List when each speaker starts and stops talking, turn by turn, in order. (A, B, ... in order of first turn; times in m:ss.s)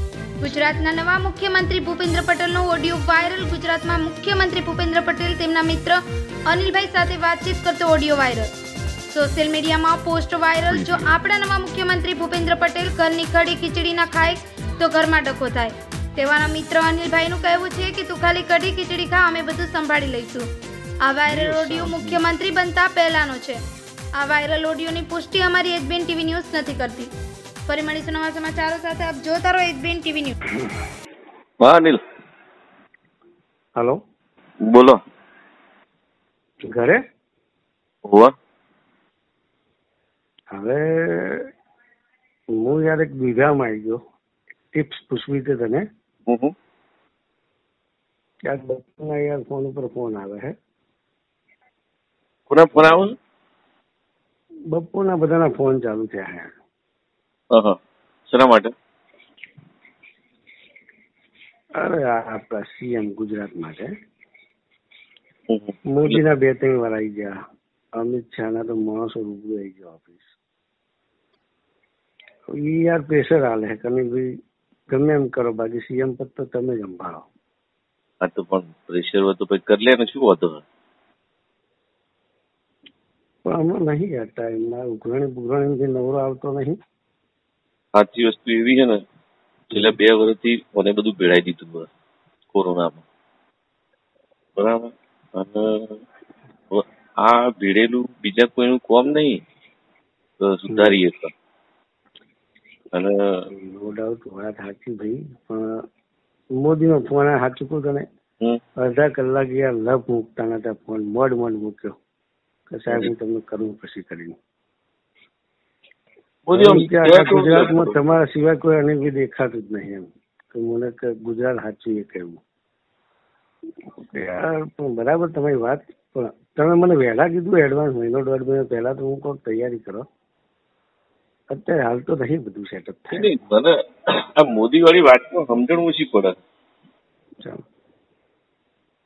0:00.4-0:08.5 A
0:09.1-0:20.4 A
0:21.0-0:23.6 A
0:21.4-0:22.2 B
0:24.2-0:27.1 A
0:27.7-0:30.4 A
0:31.6-0:32.0 B
0:34.7-0:35.0 B
0:36.7-0:37.0 C
0:38.1-0:38.3 B
0:40.5-0:41.5 C
0:42.6-0:44.0 C
0:44.7-0:45.8 C
0:46.3-0:46.5 B
0:48.5-0:50.5 C
0:52.5-0:53.1 B
0:54.7-0:56.5 C
0:58.3-0:58.7 B
1:01.8-1:03.9 C
1:05.5-1:06.2 B
1:05.9-1:07.4 C
1:08.0-1:10.3 C
1:12.5-1:14.3 C
1:14.9-1:17.3 C
1:18.2-1:20.6 B
1:23.4-1:26.8 C
1:28.0-1:29.0 B
1:29.7-1:31.9 B
1:32.5-1:33.0 B
1:34.6-1:36.0 B
1:36.7-1:39.4 B
1:40.4-1:41.3 B
1:40.7-1:41.0 C
1:42.9-1:43.4 B
1:43.5-1:45.7 C
1:46.6-1:48.0 C
1:48.8-1:52.0 C
1:52.7-1:54.4 C
1:56.5-1:58.0 B
1:56.5-2:02.4 C
2:04.1-2:10.0 C
2:11.5-2:13.4 C
2:13.1-2:16.4 B